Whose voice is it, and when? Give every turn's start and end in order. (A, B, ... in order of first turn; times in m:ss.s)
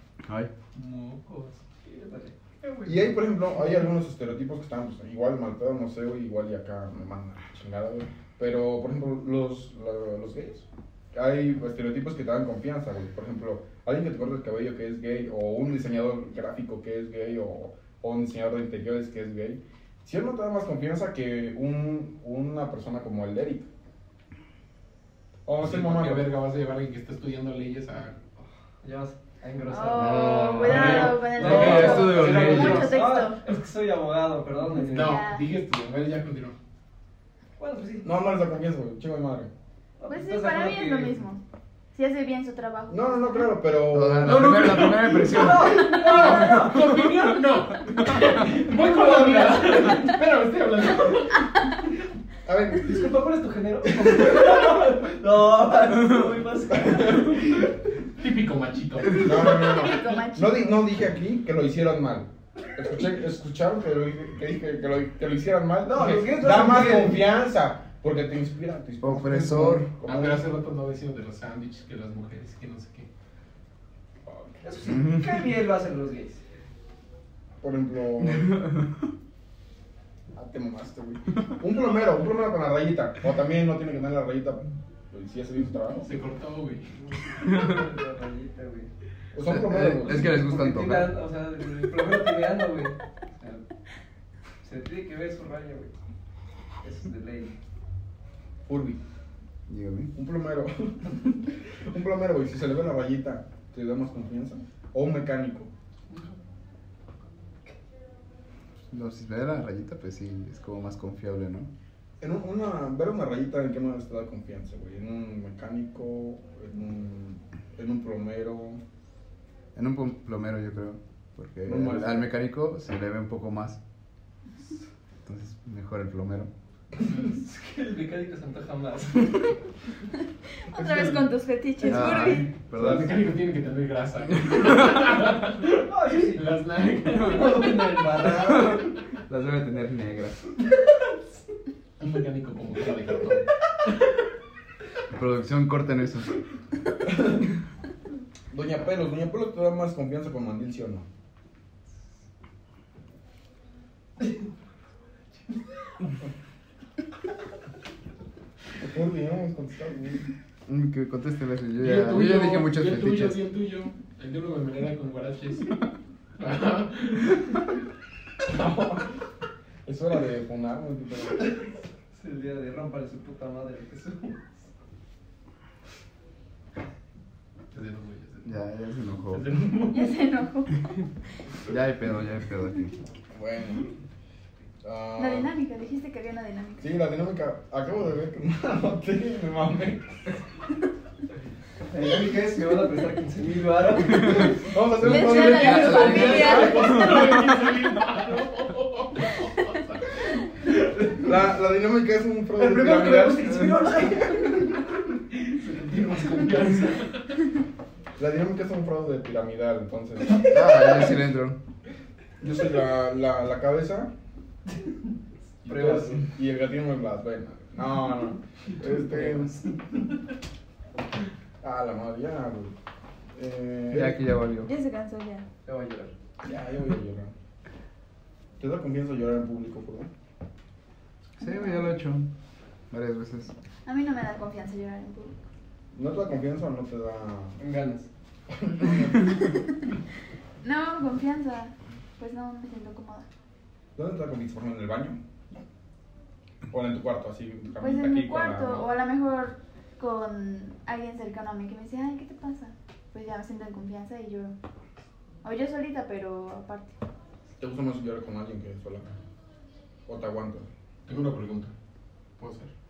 0:00.2-0:00.5 A
0:00.7-0:01.4 B
0:01.2-0:02.8 C
0:02.8-0:23.7 D
0:25.4-0:26.3 D
0:25.6-0:28.2 B
0:28.8-0:35.3 C
0:29.7-0:33.4 E
0:29.9-0:32.9 A
0:30.5-0:33.0 B
0:34.7-0:36.6 B
0:34.9-0:35.4 E
0:37.6-0:38.1 C
0:38.0-0:39.5 D
0:40.0-0:41.2 C
0:40.1-0:41.4 E
0:41.9-0:43.3 E
0:42.9-0:44.8 D
0:43.9-0:46.7 A
0:44.2-0:51.5 B
0:45.0-0:47.1 C
0:48.1-0:51.2 C
0:52.4-0:53.0 D
0:52.7-0:57.7 C
0:58.2-0:59.5 B
0:59.1-1:10.5 D
0:59.4-1:00.9 E
1:05.8-1:07.3 C
1:09.0-1:09.9 A
1:10.0-1:13.1 B
1:14.2-1:14.6 D
1:14.6-1:16.4 C
1:17.6-1:18.6 D
1:20.3-1:26.1 D
1:26.0-1:27.0 B
1:27.0-1:28.9 C
1:29.3-1:30.4 D
1:29.4-1:31.1 A
1:30.2-1:33.6 C
1:34.6-1:35.9 C
1:36.8-1:37.5 C
1:38.6-1:39.0 D
1:39.7-1:40.1 A
1:40.1-1:45.7 D
1:46.1-1:46.3 C
1:48.9-1:51.7 A
1:52.2-1:58.8 D
1:59.7-2:03.8 A
2:01.6-2:02.3 D
2:05.2-2:06.5 A
2:07.0-2:09.6 C
2:10.6-2:12.5 E
2:10.7-2:11.2 D
2:11.8-2:13.2 A
2:12.7-2:18.3 B
2:15.7-2:16.5 C
2:17.0-2:19.0 C
2:18.7-2:20.4 A
2:22.0-2:23.5 B
2:25.1-2:26.4 A
2:27.1-2:27.5 D
2:28.5-2:31.0 D
2:38.8-2:40.3 D
2:40.7-2:43.4 A
2:41.8-2:45.8 B
2:46.4-2:47.6 B
2:48.4-2:49.1 D
2:49.8-2:51.7 D
2:52.1-2:54.6 C
2:57.7-2:58.6 B
2:58.4-2:59.5 A
2:59.3-3:00.2 B
2:59.9-3:00.9 E
3:01.6-3:03.0 A
3:03.3-3:03.9 D
3:04.8-3:05.5 D
3:05.2-3:06.9 E
3:06.8-3:10.4 D
3:11.9-3:17.3 C
3:14.6-3:16.7 D
3:15.0-3:17.0 E
3:15.4-3:17.4 A
3:16.2-3:20.1 B
3:20.7-3:21.2 C
3:21.2-3:23.7 D
3:22.5-3:27.0 C
3:26.0-3:27.4 B
3:28.2-3:30.5 D
3:30.4-3:31.6 A
3:32.4-3:34.1 D
3:35.6-3:36.2 C
3:35.6-3:39.6 D
3:38.9-3:39.7 C
3:41.6-3:42.7 D
3:43.3-3:44.2 D
3:43.9-3:44.7 A
3:44.6-3:45.4 E
3:45.6-3:46.1 C
3:46.4-3:47.3 D
3:48.6-3:50.1 D
3:51.4-3:52.3 A
3:51.4-3:51.9 E
3:52.9-3:53.5 A
3:53.8-3:55.4 E
3:55.9-3:57.6 D
3:57.6-3:57.9 B
3:58.5-3:59.6 D
4:00.6-4:03.3 E
4:04.0-4:05.2 D
4:06.7-4:08.9 D
4:07.8-4:14.5 E
4:15.4-4:17.0 E
4:17.6-4:19.1 D
4:20.1-4:20.7 D
4:21.0-4:21.7 B
4:22.4-4:22.7 B